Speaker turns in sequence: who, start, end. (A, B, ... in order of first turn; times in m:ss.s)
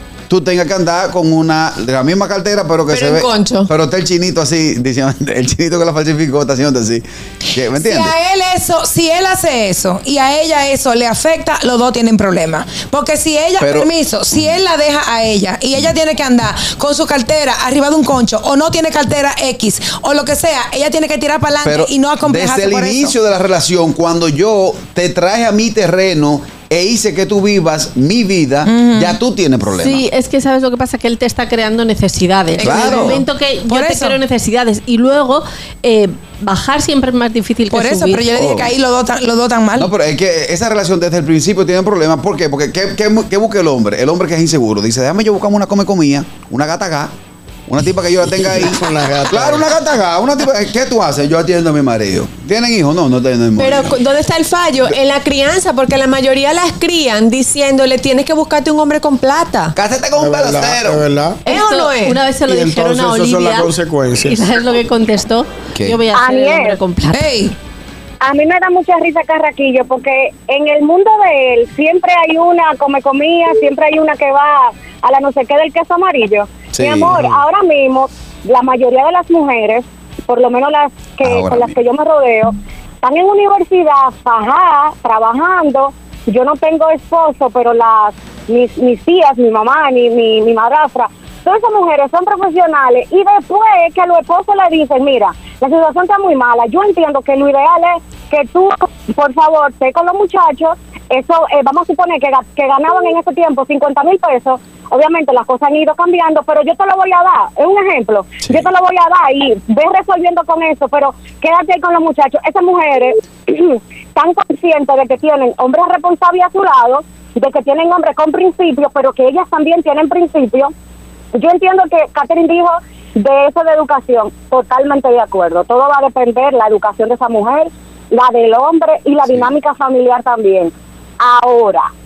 0:00.3-0:08.1 A
0:02.9-0:03.7 B
0:07.8-0:23.1 C
0:13.6-0:14.4 A
0:21.6-0:30.1 A
0:28.7-0:29.2 C
0:29.7-0:38.4 D
0:32.6-0:33.2 A
0:32.7-0:34.2 C
0:37.7-0:39.9 C
0:38.4-0:38.7 A
0:39.8-0:47.1 A
0:47.7-0:54.0 A
0:48.4-0:49.7 E
0:53.6-0:59.8 B
0:59.8-1:01.0 A
1:00.2-1:01.4 E
1:01.5-1:02.2 B
1:01.5-1:03.7 D
1:02.4-1:04.5 E
1:04.2-1:07.3 D
1:05.8-1:06.0 A
1:06.1-1:06.8 F
1:07.1-1:07.5 C
1:08.2-2:00.7 F
1:16.7-1:17.4 A
1:21.2-1:21.8 A
2:01.4-2:11.9 F